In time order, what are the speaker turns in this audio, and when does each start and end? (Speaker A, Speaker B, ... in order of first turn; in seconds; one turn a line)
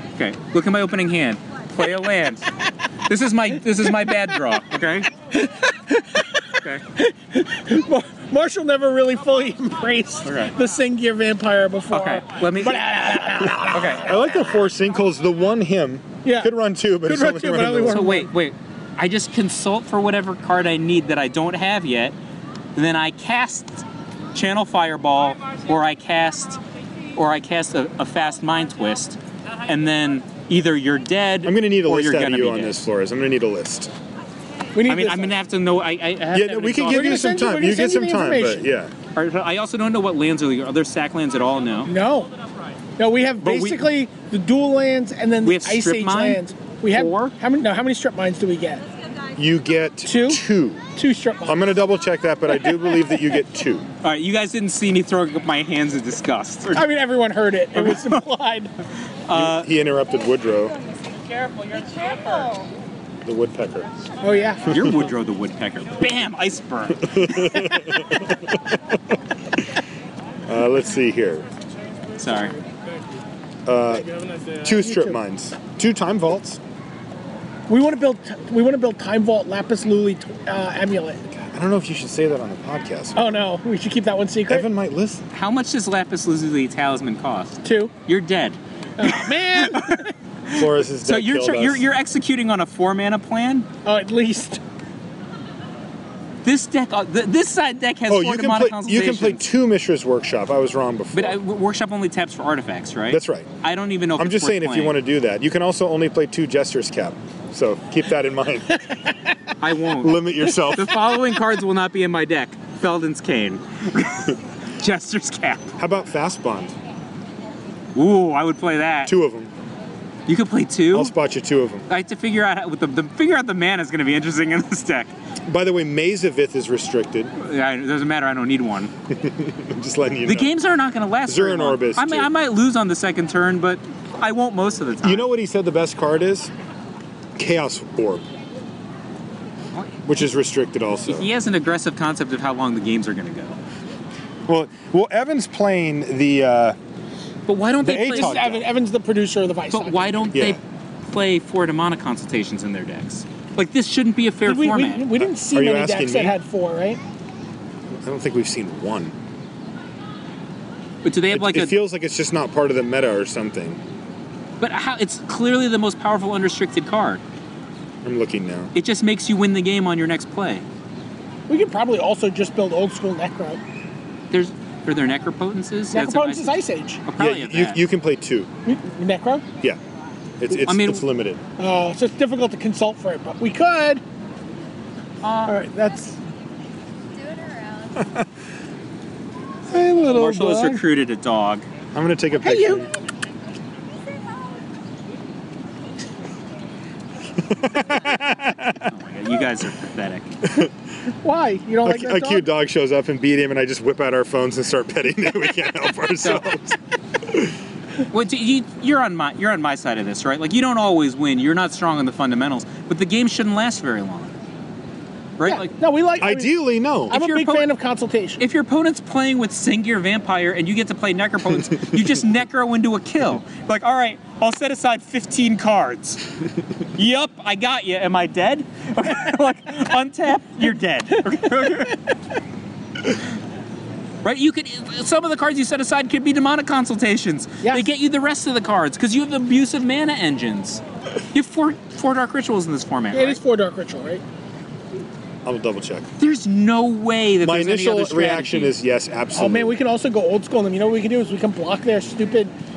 Speaker A: 0.1-2.5
Speaker A: 3.1-5.1
Speaker B: 5.3-14.4
Speaker A: 6.5-6.8
Speaker A: 10.2-10.5
Speaker A: 11.9-12.9
Speaker A: 13.7-14.1
Speaker C: 13.8-18.1
Speaker B: 16.2-18.3
Speaker A: 17.9-22.1
Speaker A: 22.7-26.6
Speaker A: 27.1-32.9
Speaker C: 31.4-33.9
Speaker B: 34.7-35.4
Speaker A: 34.9-37.3
Speaker C: 36.3-38.9
Speaker B: 36.9-38.7
Speaker A: 39.1-41.9
Speaker B: 41.9-42.3
Speaker B: 43.0-48.8
Speaker A: 43.4-43.8
Speaker A: 45.4-46.4
Speaker A: 46.9-47.3
Speaker C: 49.4-50.9
Speaker B: 50.0-50.4
Speaker B: 51.0-51.6
Speaker C: 51.4-53.9
Speaker A: 54.0-56.9
Speaker B: 56.7-58.7
Speaker A: 57.7-58.2
Speaker A: 59.3-59.7
Speaker C: 59.3-60.8
Speaker A: 61.5-62.6
Speaker C: 63.2-63.9
Speaker B: 64.2-64.7
Speaker A: 64.7-67.7
Speaker C: 67.0-68.8
Speaker C: 70.5-71.5
Speaker A: 72.2-72.6
Speaker C: 73.6-76.6
Speaker B: 74.7-75.2
Speaker B: 77.7-81.2
Speaker C: 81.4-83.3
Speaker B: 83.1-84.7
Speaker C: 84.5-85.2
Speaker A: 85.3-93.7
Speaker B: 87.6-87.9
Speaker B: 89.0-90.1
Speaker C: 90.5-91.8
Speaker B: 93.8-94.6
Speaker A: 96.4-99.5
Speaker C: 98.1-101.4
Speaker A: 101.1-105.0
Speaker C: 103.1-103.5
Speaker C: 104.2-108.8
Speaker A: 109.6-115.7
Speaker C: 109.9-111.1
Speaker C: 115.8-116.7
Speaker A: 117.9-119.1
Speaker C: 119.0-119.5
Speaker A: 120.3-121.1
Speaker C: 120.9-121.9
Speaker A: 121.9-125.1
Speaker C: 125.5-127.3
Speaker A: 127.4-128.9
Speaker C: 129.1-130.5
Speaker A: 130.2-135.3
Speaker C: 131.2-132.3
Speaker C: 135.0-136.5
Speaker C: 137.4-138.2
Speaker C: 140.0-141.3
Speaker A: 141.1-143.6
Speaker C: 144.5-146.8
Speaker A: 147.5-148.3
Speaker C: 147.8-148.7
Speaker B: 147.9-150.3
Speaker A: 149.7-155.1
Speaker C: 150.3-150.6
Speaker B: 154.4-157.0
Speaker C: 155.4-156.3
Speaker C: 158.0-159.1
Speaker A: 161.0-161.8
Speaker C: 161.3-163.8
Speaker A: 164.6-167.2
Speaker C: 168.0-168.7
Speaker A: 168.7-170.6
Speaker B: 171.5-173.6
Speaker A: 174.3-177.8
Speaker B: 175.9-177.0
Speaker C: 177.2-178.5
Speaker B: 178.6-179.4
Speaker C: 180.4-181.4
Speaker A: 180.7-181.0
Speaker B: 181.6-184.0
Speaker A: 185.2-185.5
Speaker B: 185.4-186.2
Speaker C: 187.9-188.3
Speaker C: 189.7-190.8
Speaker A: 190.1-191.7
Speaker C: 191.9-192.9
Speaker B: 192.4-192.9
Speaker C: 197.4-198.8
Speaker A: 198.8-200.3
Speaker C: 200.4-200.7
Speaker B: 201.2-202.5
Speaker C: 201.8-207.5
Speaker A: 206.2-206.5
Speaker A: 208.1-214.4
Speaker A: 215.4-215.7
Speaker B: 215.4-216.5
Speaker C: 216.2-217.2
Speaker B: 217.1-218.4
Speaker A: 217.1-217.7
Speaker A: 218.4-226.2
Speaker A: 226.9-232.0
Speaker A: 234.2-240.8
Speaker A: 241.3-243.4
Speaker B: 243.1-244.2
Speaker C: 245.4-246.1
Speaker A: 246.2-248.7
Speaker C: 247.4-249.8
Speaker B: 249.3-252.5